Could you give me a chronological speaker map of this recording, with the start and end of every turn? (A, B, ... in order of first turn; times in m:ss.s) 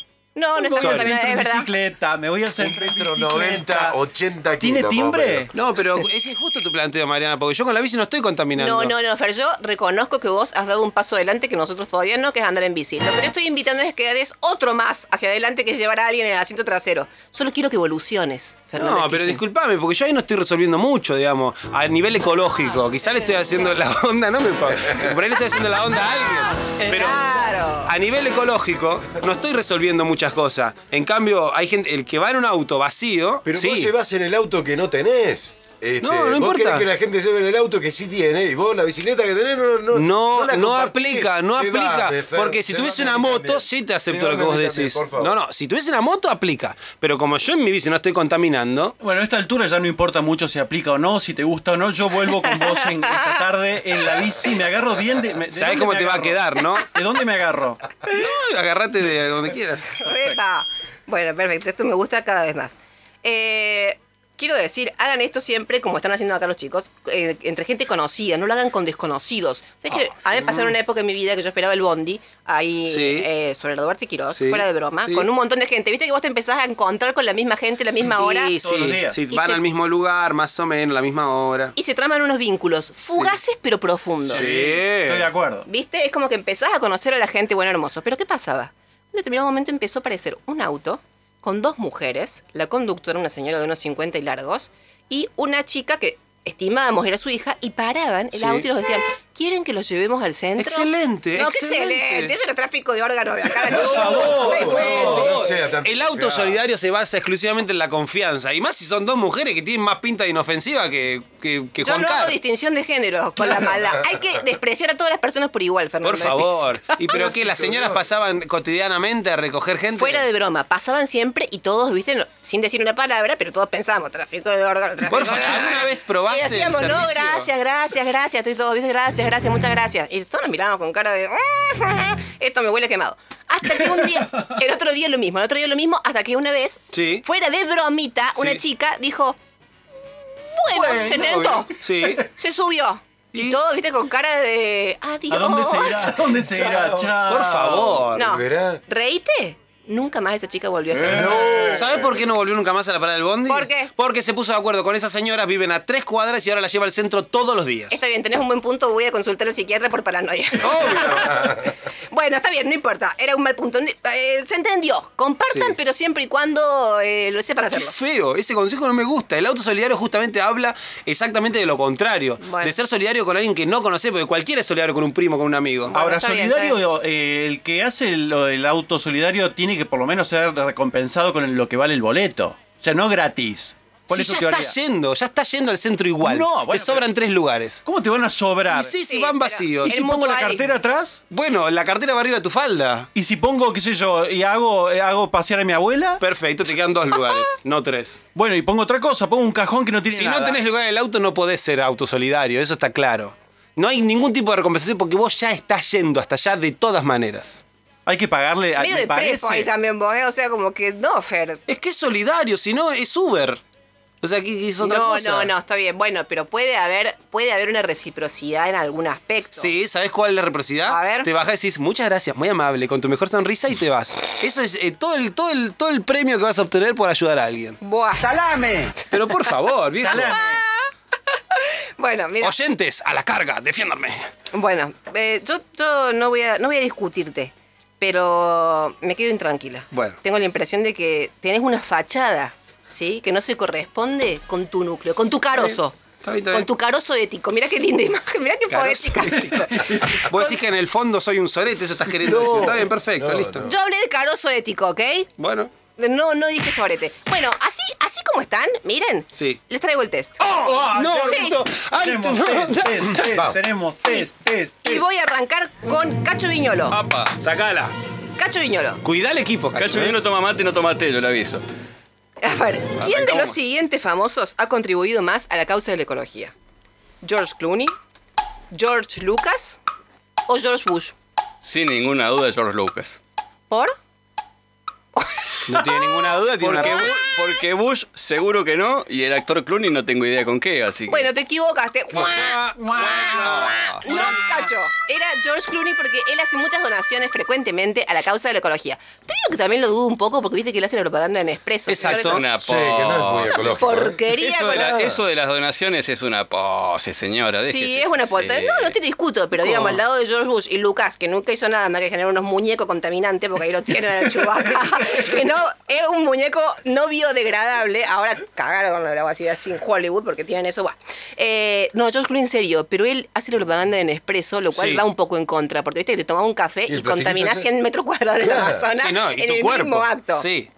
0:00.4-0:01.7 A
0:00.6-0:04.0 B
0:00.8-0:01.2 C
0:02.6-0:05.5 D
0:04.6-0:05.5 B
0:05.5-0:08.9 C
0:08.6-0:19.4 A
0:18.8-0:33.9 C
0:26.7-0:27.3 B
0:26.9-0:27.9 A
0:33.5-0:45.3 D
0:36.0-0:36.9 C
0:39.9-0:49.0 C
0:49.0-0:57.8 B
0:52.3-0:53.5 A
0:55.5-0:57.0 C
0:58.1-1:00.1 C
1:00.0-1:18.6 A
1:12.9-1:13.3 C
1:14.3-1:15.3 C
1:18.1-1:21.7 C
1:18.6-1:19.2 B
1:19.3-1:19.6 A
1:21.8-1:24.6 A
1:23.1-1:23.4 C
1:24.2-1:25.3 C
1:24.3-1:25.7 B
1:25.7-1:45.6 A
1:38.3-1:38.7 C
1:40.6-1:42.3 C
1:43.7-1:45.5 B
1:43.8-1:46.6 D
1:44.7-1:52.4 C
1:51.8-1:57.2 A
1:56.0-2:00.3 C
1:57.1-1:58.0 D
2:00.0-2:19.4 A
2:05.1-2:07.5 C
2:16.9-2:17.2 C
2:18.4-2:18.6 C
2:20.5-2:26.3 A
2:20.7-2:21.6 B
2:21.7-2:22.3 C
2:23.3-2:23.6 C
2:25.3-2:28.0 B
2:26.4-2:27.2 D
2:27.2-2:28.3 C
2:28.1-2:31.8 A
2:28.2-2:28.8 D
2:31.0-2:32.2 D
2:31.7-2:38.0 C
2:33.5-2:33.9 A
2:37.9-2:48.0 A
2:40.6-2:41.6 C
2:45.5-2:45.8 C
2:47.7-2:56.0 C
2:52.4-2:52.8 A
2:55.9-2:56.8 A
2:55.9-3:04.8 B
3:04.1-3:07.8 C
3:06.2-3:07.0 B
3:07.8-3:08.9 B
3:08.7-3:10.0 C
3:09.1-3:10.7 A
3:09.8-3:11.2 B
3:11.3-3:13.1 C
3:13.2-3:16.2 B
3:16.2-3:18.2 C
3:18.4-3:20.6 B
3:20.1-3:27.6 C
3:28.1-3:29.7 B
3:28.8-3:31.6 A
3:31.7-3:33.6 C
3:34.2-3:35.5 C
3:34.8-3:39.7 A
3:39.5-3:47.8 C
3:40.9-3:41.3 A
3:47.8-3:48.9 A
3:49.0-3:50.4 C
3:50.0-3:50.6 B
3:50.1-3:52.6 A
3:52.4-3:54.2 C
3:54.5-4:06.0 A
3:59.9-4:00.2 C
4:05.6-4:06.7 C
4:06.5-4:10.6 A
4:08.7-4:13.7 C
4:12.2-4:13.8 D
4:13.6-4:15.3 A
4:15.4-4:15.7 C
4:16.0-4:20.5 A
4:19.3-4:19.6 C
4:20.4-4:23.3 C
4:20.6-4:25.0 B
4:21.2-4:21.6 A
4:23.3-4:23.6 D
4:24.0-4:24.3 A
4:24.8-4:27.0 A
4:26.9-4:27.3 E
4:27.0-4:27.9 C
4:28.4-4:29.0 A
4:29.0-4:30.2 C
4:29.8-4:31.6 E
4:32.4-4:36.5 A
4:33.0-4:33.5 E
4:37.2-4:37.9 A
4:38.7-4:39.8 A
4:40.5-4:41.2 A
4:41.6-4:43.2 E
4:43.7-4:44.0 A
4:45.2-4:46.0 A
4:45.7-4:47.1 C
4:46.6-4:51.3 E
4:46.8-4:47.5 A
4:51.1-5:02.5 A
4:52.1-4:54.6 C
4:53.4-4:54.1 E
5:01.9-5:02.5 C
5:02.0-5:08.9 E
5:02.6-5:05.2 D
5:03.6-5:04.9 A
5:07.6-5:30.5 A
5:09.6-5:10.0 C
5:24.7-5:25.0 C
5:26.9-5:27.7 D
5:28.4-5:28.8 D
5:29.0-5:30.7 C